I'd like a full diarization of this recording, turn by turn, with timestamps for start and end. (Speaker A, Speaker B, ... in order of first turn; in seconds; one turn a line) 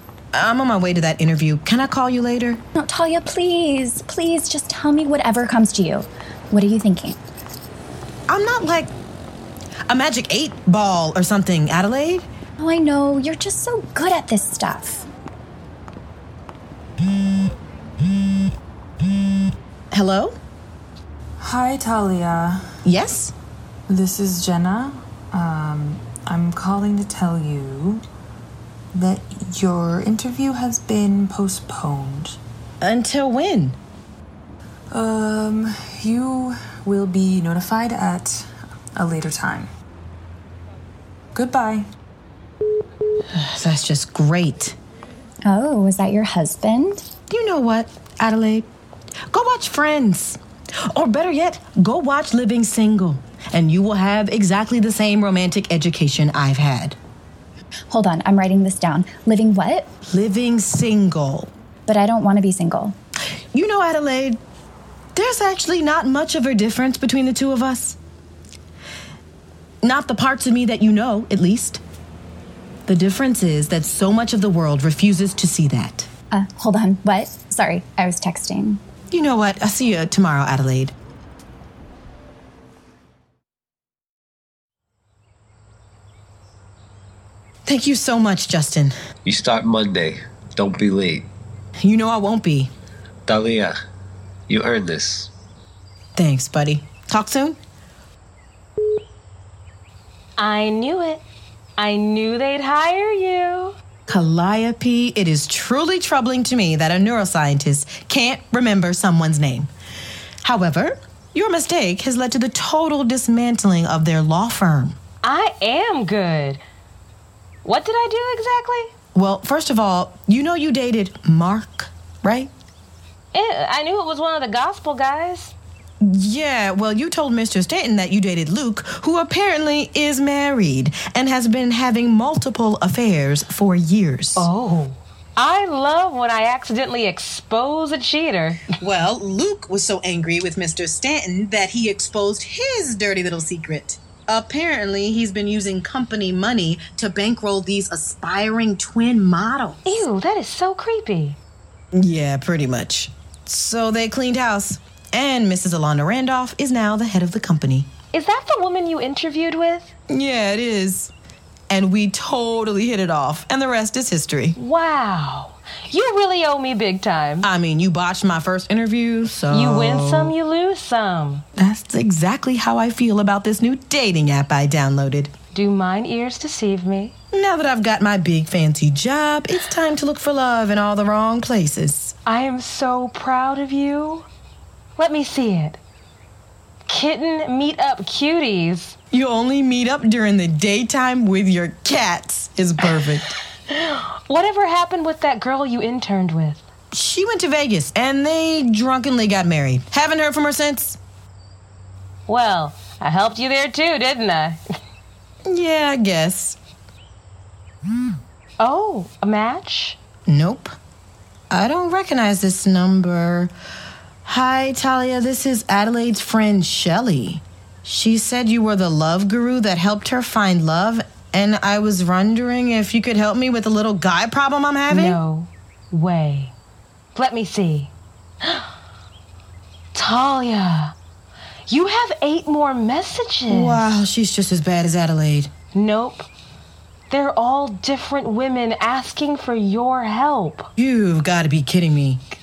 Speaker A: 0.3-2.6
Speaker B: 2.8-7.2
Speaker A: 8.3-8.9
Speaker A: 9.9-12.3
Speaker B: 12.6-15.1
Speaker A: 19.9-20.4
Speaker C: 21.4-22.6
Speaker A: 22.9-23.3
Speaker C: 23.9-28.0
Speaker C: 28.9-32.4
Speaker A: 32.8-33.8
Speaker C: 34.9-39.7
Speaker C: 41.4-41.9
Speaker A: 43.3-44.8
Speaker B: 45.5-47.0
Speaker A: 47.3-48.7
Speaker A: 49.3-50.4
Speaker A: 50.9-57.0
Speaker B: 57.9-59.9
Speaker A: 60.1-61.5
Speaker B: 61.9-63.0
Speaker A: 63.5-64.4
Speaker A: 65.2-68.0
Speaker A: 69.8-71.8
Speaker A: 72.9-76.1
Speaker B: 76.3-78.8
Speaker A: 79.1-80.9
Speaker A: 87.7-88.9
Speaker D: 89.2-91.3
Speaker A: 91.8-92.7
Speaker D: 93.3-93.8
Speaker D: 94.5-95.3
Speaker A: 96.2-97.6
Speaker E: 100.4-101.2
Speaker E: 101.8-103.8
Speaker A: 104.1-109.7
Speaker A: 110.4-115.0
Speaker E: 115.2-116.6
Speaker E: 117.6-118.9
Speaker A: 119.1-122.5
Speaker E: 123.3-125.5
Speaker A: 126.0-134.5
Speaker E: 134.4-138.7
Speaker A: 138.8-150.1
Speaker E: 149.9-151.4
Speaker A: 151.9-157.9
Speaker E: 158.1-159.9
Speaker A: 160.1-161.1
Speaker A: 161.7-164.6
Speaker E: 164.6-167.5
Speaker A: 167.4-170.3
Speaker E: 169.5-171.4
Speaker A: 171.6-175.3
Speaker E: 175.5-177.1
Speaker A: 177.3-182.1
Speaker E: 182.3-184.3
Speaker E: 185.0-185.8
Speaker E: 186.9-189.0
Speaker A: 189.1-193.4
Speaker E: 193.7-196.6
Speaker A: 196.9-201.0
Speaker E: 202.3-204.6
Speaker A: 205.5-206.6
Speaker E: 208.6-210.0
Speaker A: 210.3-210.7
Speaker A: 211.5-213.5
Speaker A: 214.3-225.2
Speaker E: 224.9-226.5
Speaker E: 227.2-227.9
Speaker E: 229.9-230.9
Speaker E: 231.7-233.8
Speaker A: 233.5-235.5
Speaker E: 235.7-236.3
Speaker E: 237.1-240.7
Speaker A: 240.8-242.2